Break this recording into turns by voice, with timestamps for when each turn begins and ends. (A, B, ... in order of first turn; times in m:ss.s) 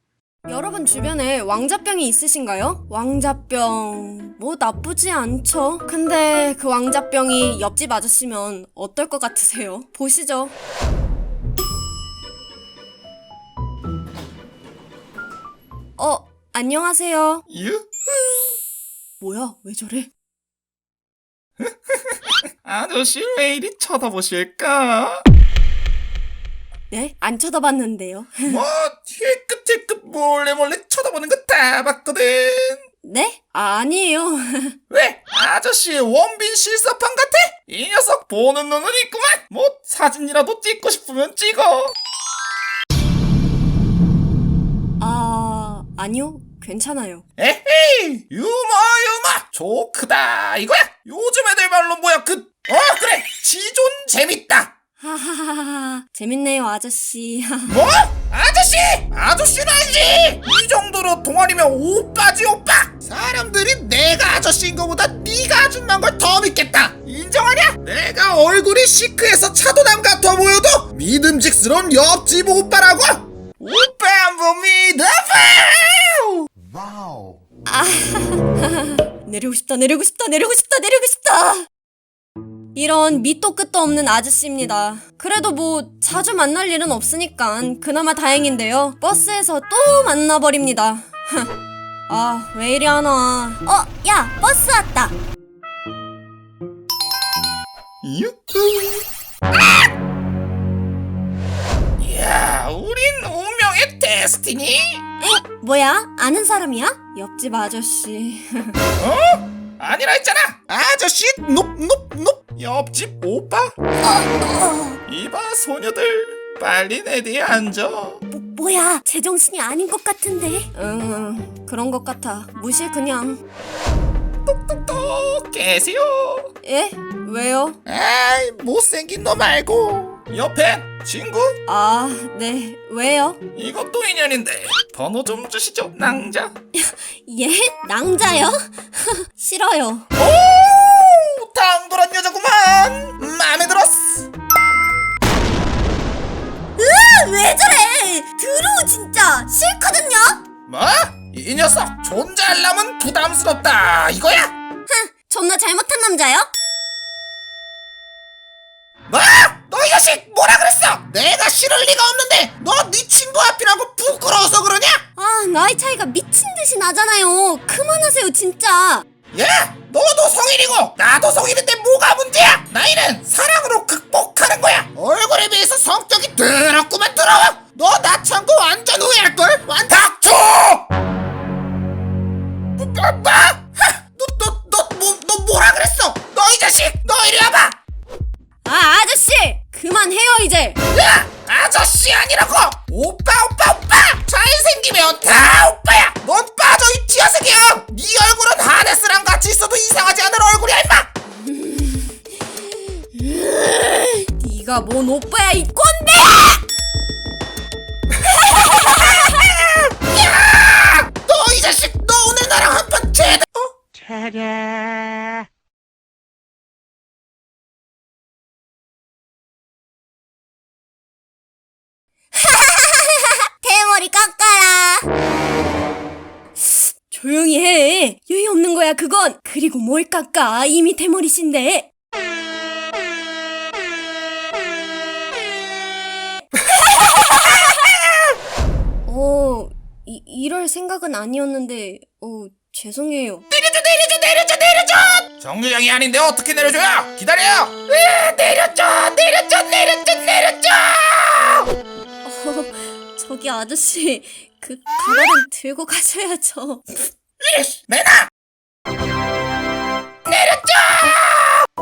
0:00.5-0:10.6 A
0:16.0-0:17.4 A
0:17.5-0:18.5 B
0:19.2-0:20.1 A
0:21.6-0:25.2 B
0:26.9-0:28.6 A
0:28.5-0:32.8 B
0:33.0-0:34.8 A
0:34.9-0:41.9 B
0:45.0-0:47.2 A
0:47.4-0:54.7 B
0:55.0-0:57.8 A
0:57.7-1:16.4 B
1:17.7-1:21.7 A
1:22.8-1:31.5 A
1:32.1-1:35.2 A
1:38.0-1:39.0 B
1:42.0-1:45.0 B
1:45.2-1:48.8 A
1:49.0-1:53.7 B
1:54.0-1:55.0 A
1:55.1-1:58.2 B
1:58.3-2:03.4 A
2:04.5-2:06.5 B
2:06.6-2:07.8 A
2:07.9-2:11.6 B
2:11.7-2:13.4 A
2:13.6-2:16.5 B
2:16.7-2:20.1 A
2:20.2-2:24.3 B
2:26.8-2:30.4 A
2:30.7-2:34.5 B
2:34.9-2:36.5 A
2:39.1-2:45.0 B
2:45.2-2:49.0 A
2:49.3-3:00.8 B
3:02.8-3:07.8 B
3:08.6-3:10.8 A
3:10.9-3:21.1 B
3:21.4-3:22.2 A
3:23.1-3:26.6 A
3:28.4-3:29.5 A
3:30.1-3:33.6 B
3:42.3-3:45.1 A
3:46.6-3:51.9 A
3:59.1-4:03.4 A
4:03.5-4:11.7 B
4:12.2-4:17.0 A
4:17.4-4:18.3 B
4:20.3-4:21.6 B